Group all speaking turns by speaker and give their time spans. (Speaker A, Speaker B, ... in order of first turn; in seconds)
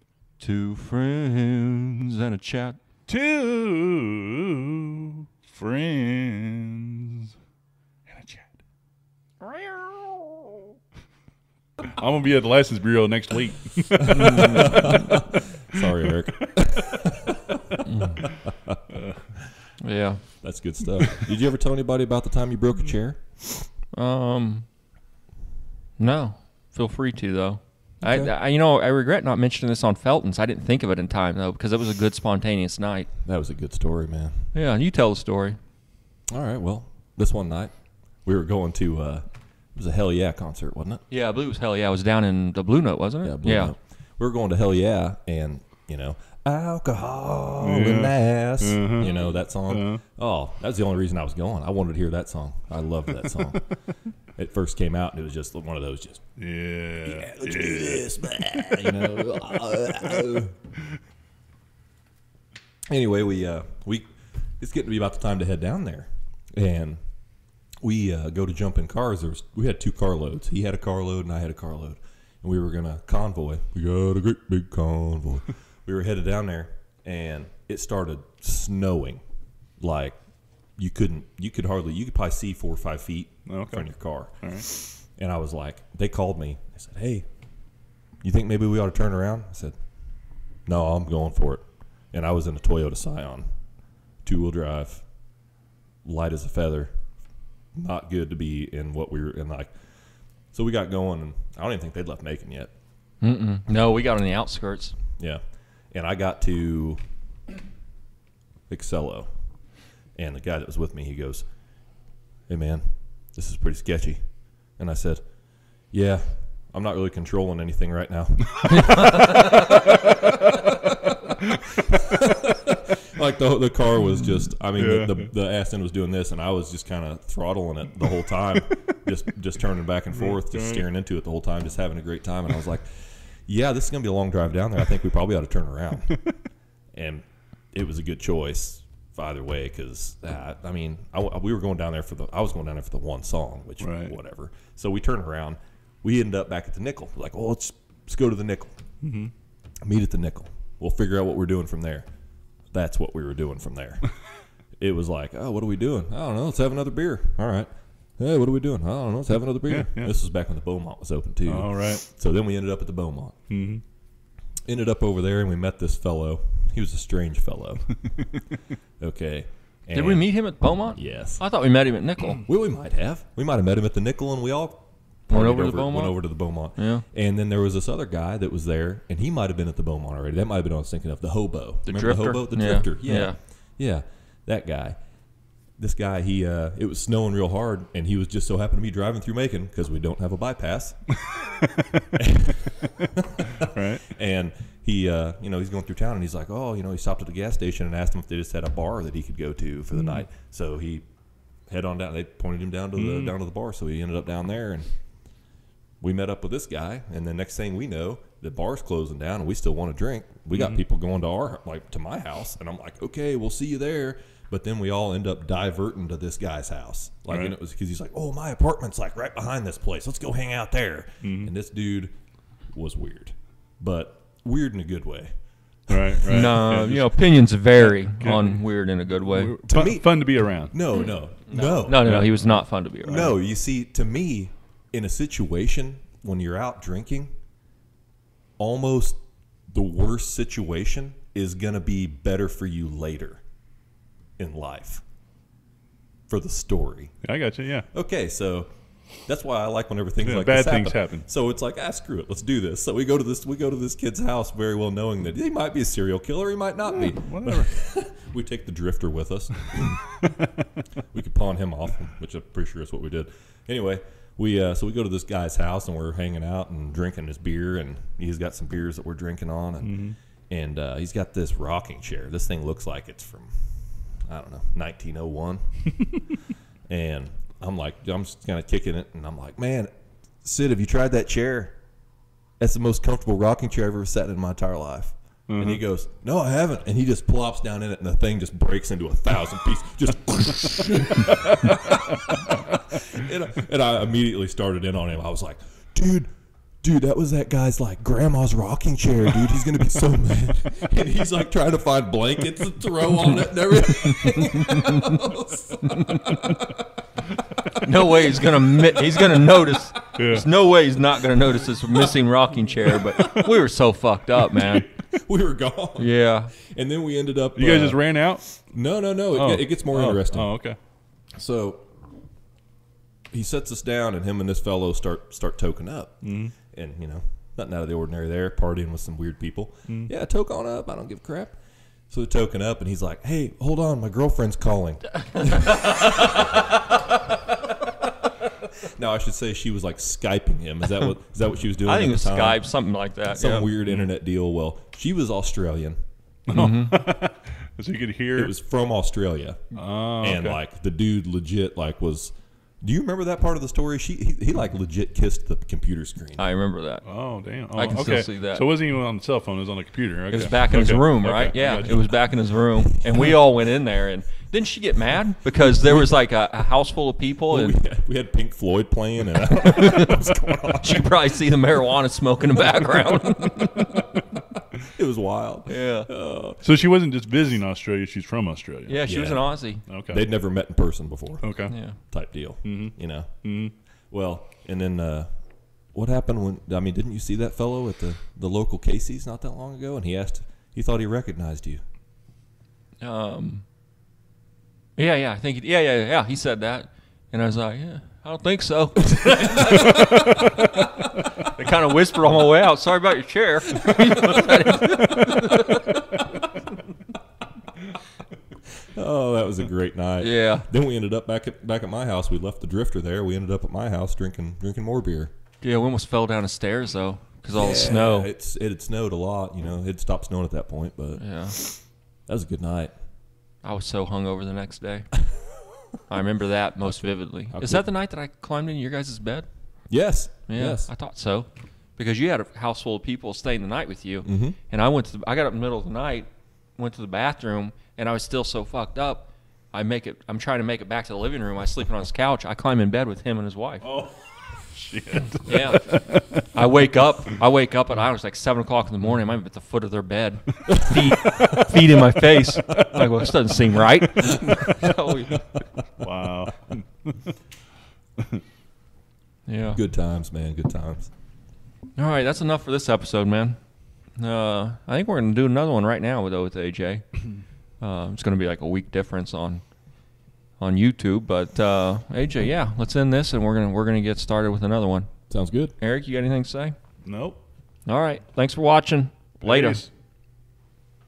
Speaker A: 0.4-2.8, 17.9-18.2, 19.8-20.3, 23.9-24.7, 26.0-33.1, 34.5-35.6, 41.1-43.7, 103.2-105.0, 169.9-172.4, 175.3-177.1, 181.8-183.4, 226.3-229.6, 231.5-233.3, 307.8-314.9, 316.0-316.5, 341.8-343.7, 346.5-347.0, 356.4-357.1, 357.7-358.7, 360.3-367.8, 369.7-370.0, 370.8-373.9, 375.7-376.1, 378.9-379.8, 381.7-382.0, 393.0-393.6, 395.0-400.3, 401.5-406.0, 410.2-410.7, 415.6-418.3, 421.2-421.6, 423.6-425.3, 426.1-443.8, 445.4-455.5, 459.5-459.8, 462.0-476.8, 477.9-479.9
Speaker B: 3.1-7.3, 8.1-8.5, 9.4-10.7, 11.9-15.2, 47.6-49.1, 49.6-50.0, 56.4-59.2, 59.8-60.2, 83.5-84.7, 124.7-125.3, 130.1-130.8, 143.8-144.2, 149.0-149.3, 159.6-160.2, 161.5-162.0, 163.5-163.8, 193.6-194.1, 199.9-200.2, 202.9-203.3, 210.5-210.8, 217.3-217.6, 221.2-221.5, 225.9-230.8, 232.0-232.5, 247.2-247.9, 250.2-251.3, 256.9-257.7, 269.8-270.2, 285.5-285.8, 310.2-310.5, 317.5-318.6, 319.3-320.8, 326.2-326.5, 346.5-348.5, 349.8-350.6, 357.0-362.3, 376.6-379.0, 379.9-380.3, 381.4-381.8, 382.6-383.7, 443.8-446.3, 456.0-457.1, 477.0-477.4, 479.4-479.9
Speaker C: 14.2-17.4, 20.4-23.7, 28.0-28.3, 33.2-34.5, 36.3-41.0, 43.2-53.7, 54.4-56.2, 57.0-60.5, 62.9-64.1, 64.6-67.0, 67.8-79.2, 79.8-87.2, 88.2-89.8, 90.7-93.5, 94.2-95.1, 96.0-96.9, 97.8-99.7, 100.5-102.7, 105.2-107.0, 108.7-111.5, 112.5-121.2, 121.9-136.2, 136.9-148.8, 149.8-152.1, 152.6-154.2, 154.8-163.3, 164.7-168.3, 169.0-171.5, 172.5-191.3, 192.2-201.1, 201.7-204.9, 206.0-222.1, 222.7-225.3, 225.8-226.7, 229.7-237.3, 238.6-243.4, 244.4-245.0, 246.3-247.2, 247.9-260.1, 261.1-276.2, 276.9-279.9, 280.4-281.8, 282.6-296.3, 296.8-306.8, 307.8-309.8, 314.6-320.6, 321.4-321.9, 323.3-336.6, 339.0-342.8, 343.3-346.0, 348.3-356.5, 363.0-363.4, 365.6-366.1, 367.5-371.1, 374.8-376.6, 379.0-383.5, 384.1-385.3, 385.9-391.8, 399.5-400.3, 408.9-415.3, 417.5-422.9, 426.8-427.9, 429.9-430.9, 434.2-434.6, 459.7-461.1, 475.3-475.8